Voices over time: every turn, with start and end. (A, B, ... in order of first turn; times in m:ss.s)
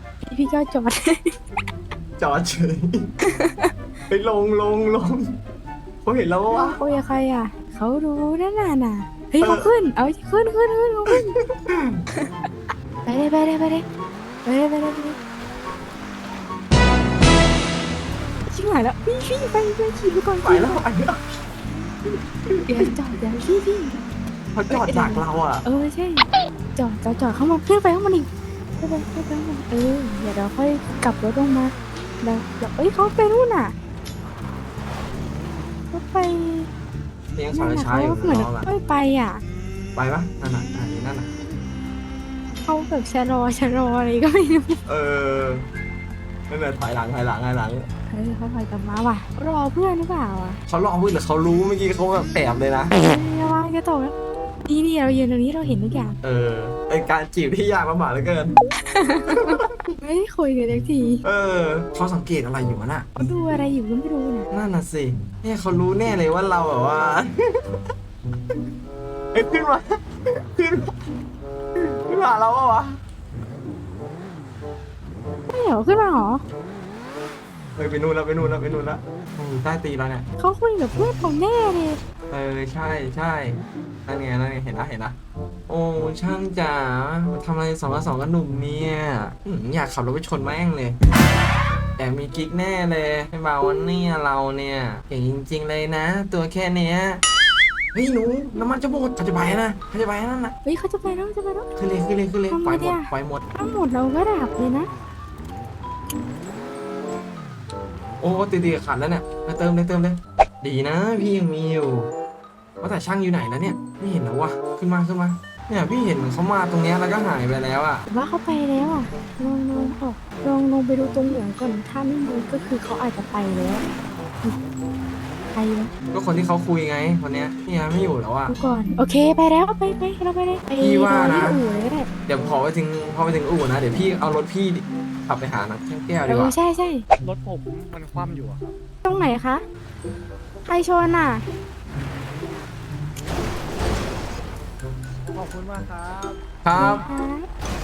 0:00.2-0:01.4 A
0:02.2-0:03.1 B
0:03.3-0:03.7 A
0:04.1-0:05.4 B
0:06.0-0:06.8 B
0:06.7-0:11.4 A
0:09.4-0:09.7 B
0:11.1-0:12.0 B
0:13.0-0:13.8 A
0:14.4-0:15.2 A
0:18.5-0:20.8 A
0:20.4-0:21.2 B
0:22.5-0:22.9 B
0:22.7-0:24.0 A
0:24.5-0:25.6 B
0:24.7-0:28.3 A
0:28.8-0:33.7 A
0:35.9-0:36.7 A
0:37.3-0:38.7 B
0:37.5-0:39.4 A
0:39.9-0:41.3 B
0:42.6-0:44.8 A
0:44.8-0:45.6 B
0:46.5-0:47.9 B
0:48.1-0:50.6 A
0:50.7-0:52.9 B
0:52.9-0:54.1 A
0:54.6-0:56.2 A
0:56.2-0:58.6 B
0:58.9-1:01.2 A
0:59.4-0:59.7 B
1:01.2-1:03.1 B
1:03.2-1:04.5 A
1:04.5-1:07.8 B
1:09.3-1:11.0 B
1:11.8-1:13.0 B
1:15.5-1:16.4 A
1:17.8-1:20.2 B
1:20.4-1:22.0 A
1:22.3-1:25.2 B
1:25.7-1:31.0 B
1:32.0-1:37.2 B
1:37.9-1:40.5 B
1:40.6-1:41.7 A
1:41.8-1:43.4 B
1:42.5-1:44.9 A
1:48.2-1:52.1 B
1:52.8-1:58.0 B
1:58.1-2:03.8 A
2:05.5-2:05.9 A
2:06.1-2:08.5 B
2:08.5-2:12.1 A
2:10.8-2:11.6 B
2:12.3-2:16.5 B
2:16.3-2:17.0 A
2:17.2-2:18.6 C
2:19.0-2:19.6 A
2:20.6-2:21.4 A
2:25.3-2:26.3 C
2:26.6-2:27.1 B
2:26.7-2:27.5 A